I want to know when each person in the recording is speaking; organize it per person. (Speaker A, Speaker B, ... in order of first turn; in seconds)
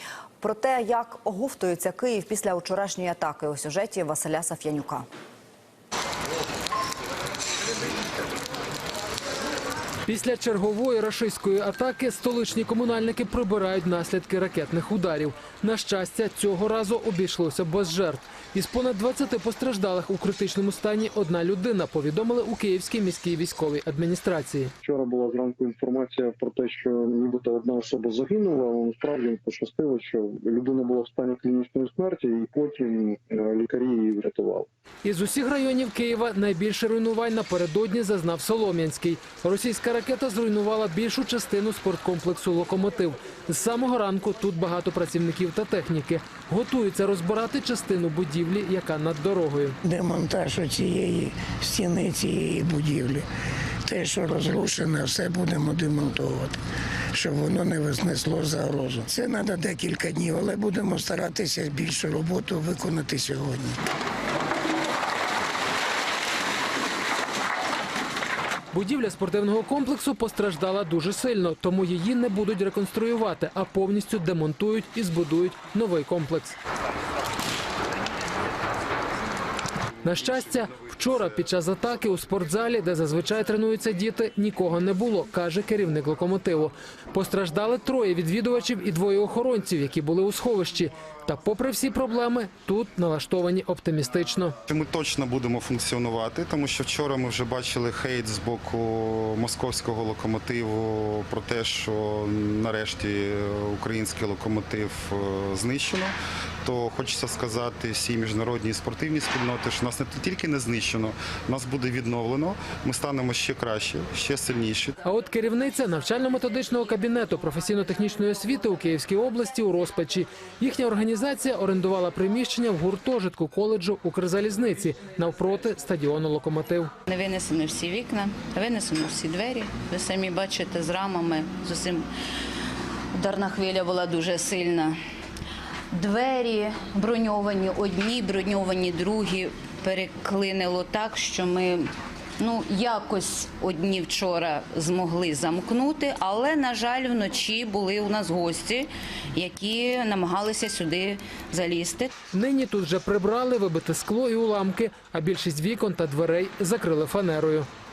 Speaker A: 0.4-5.0
Speaker B: 10.1-24.7, 35.0-49.8, 68.7-76.6, 80.0-94.5, 115.0-126.9, 152.3-157.7
Speaker C: 24.8-34.7
Speaker D: 49.8-53.2, 53.9-56.6, 57.1-63.8
Speaker E: 94.7-106.1, 106.6-115.0
Speaker F: 127.1-132.1, 133.2-135.0, 135.9-152.1